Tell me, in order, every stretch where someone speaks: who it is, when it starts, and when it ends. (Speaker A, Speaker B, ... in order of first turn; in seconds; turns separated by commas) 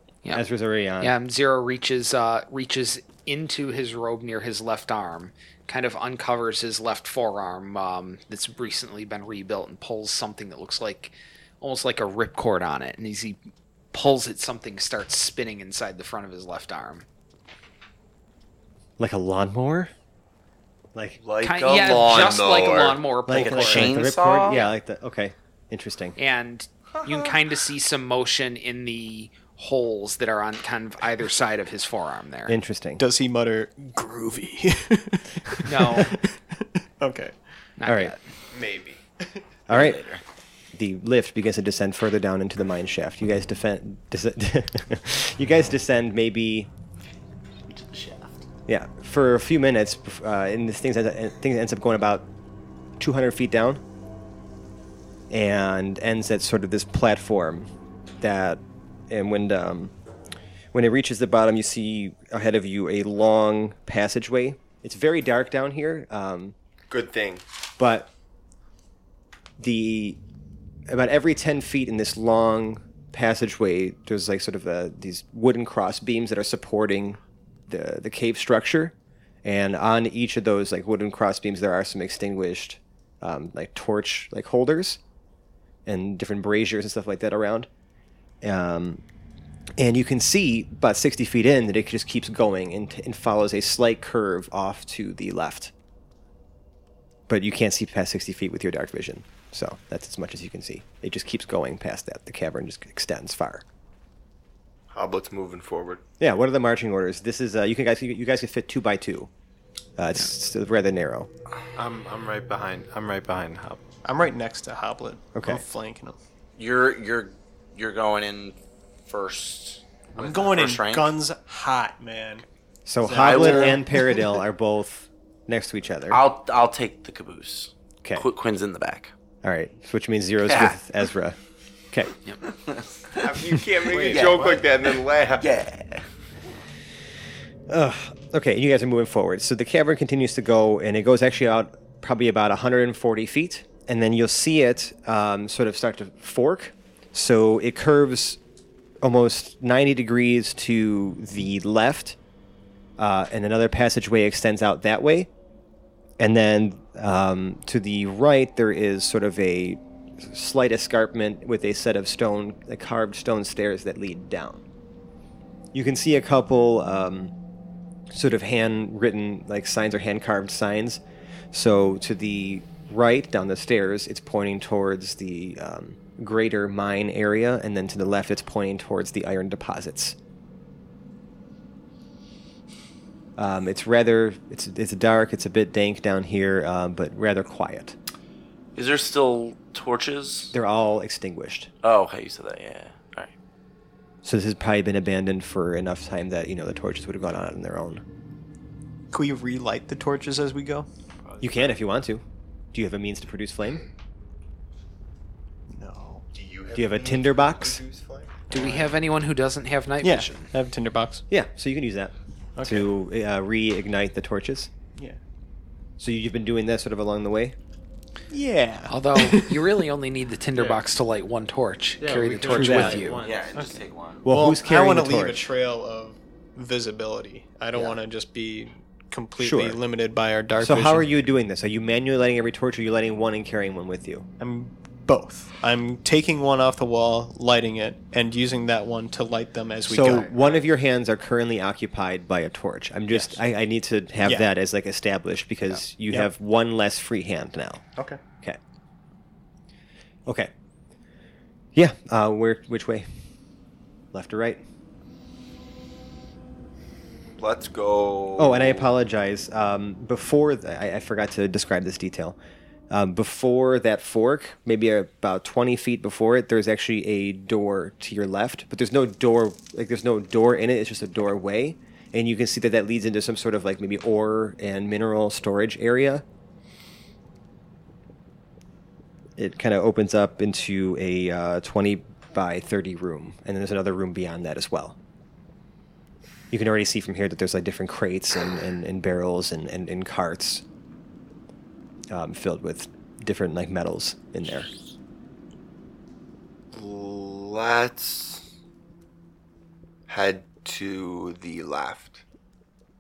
Speaker A: 0.3-1.1, Speaker B: 1.0-13.4, Speaker B: 13.9-17.1, Speaker A: 19.0-19.9, Speaker C: 21.2-23.0, Speaker B: 21.4-24.7, Speaker A: 23.3-26.2, Speaker D: 23.3-24.7, Speaker B: 26.2-32.6, Speaker A: 32.5-33.0, Speaker E: 33.0-37.4, Speaker B: 35.6-36.2, Speaker B: 37.8-38.2, Speaker A: 37.9-38.1, Speaker C: 38.5-39.0, Speaker A: 39.7-40.1, Speaker D: 39.7-40.2, Speaker A: 40.7-46.7, Speaker D: 47.7-48.5, Speaker A: 48.7-52.3, Speaker A: 53.0-53.8, Speaker A: 55.3-59.9, Speaker A: 60.7-66.5, Speaker C: 66.9-67.4, Speaker A: 67.8-68.1, Speaker A: 69.6-70.2, Speaker A: 70.9-85.0, Speaker A: 85.9-87.7, Speaker A: 88.4-89.0, Speaker A: 89.8-95.7, Speaker A: 97.3-103.6, Speaker C: 104.9-106.0, Speaker A: 106.2-109.3, Speaker A: 110.0-111.3, Speaker F: 111.8-113.8, Speaker E: 114.0-116.2, Speaker A: 115.3-115.6, Speaker D: 116.6-121.1, Speaker E: 120.2-122.5, Speaker A: 122.9-126.2, Speaker E: 123.0-124.2, Speaker D: 123.2-123.8, Speaker D: 126.1-129.1, Speaker A: 129.4-131.4, Speaker D: 130.5-130.7, Speaker D: 132.5-133.4, Speaker C: 133.2-135.5, Speaker F: 133.9-134.6, Speaker D: 133.9-136.1, Speaker A: 137.7-148.4, Speaker A: 149.0-152.2, Speaker A: 153.0-155.3, Speaker A: 156.2-164.6, Speaker A: 165.7-167.3, Speaker A: 168.1-180.2, Speaker A: 183.4-187.9, Speaker D: 188.8-190.5, Speaker A: 190.5-191.7, Speaker D: 191.8-193.3, Speaker A: 194.2-198.0, Speaker E: 199.1-200.9, Speaker F: 201.3-201.7, Speaker A: 201.4-202.2, Speaker A: 202.7-203.8, Speaker E: 205.7-206.2, Speaker C: 206.3-208.5, Speaker A: 206.8-207.8, Speaker E: 208.5-208.9, Speaker B: 208.5-210.5, Speaker E: 210.0-211.2, Speaker A: 211.3-214.7, Speaker E: 212.6-212.9, Speaker A: 216.0-217.6, Speaker E: 218.3-219.7, Speaker B: 218.9-223.1, Speaker F: 220.6-220.8, Speaker F: 222.0-223.6, Speaker A: 222.4-223.2, Speaker D: 223.2-224.2, Speaker E: 223.5-231.1, Speaker A: 224.2-225.5, Speaker A: 229.4-229.8, Speaker A: 230.6-234.3, Speaker E: 234.4-240.6, Speaker A: 239.9-247.8, Speaker E: 243.1-243.4, Speaker E: 244.2-244.5, Speaker A: 250.3-250.5, Speaker A: 251.8-253.1, Speaker A: 254.1-254.6, Speaker C: 257.4-258.9, Speaker A: 258.4-262.4, Speaker A: 262.9-276.2, Speaker A: 279.4-285.0, Speaker A: 286.5-290.6, Speaker A: 292.1-294.7, Speaker C: 296.7-298.5, Speaker C: 300.1-302.2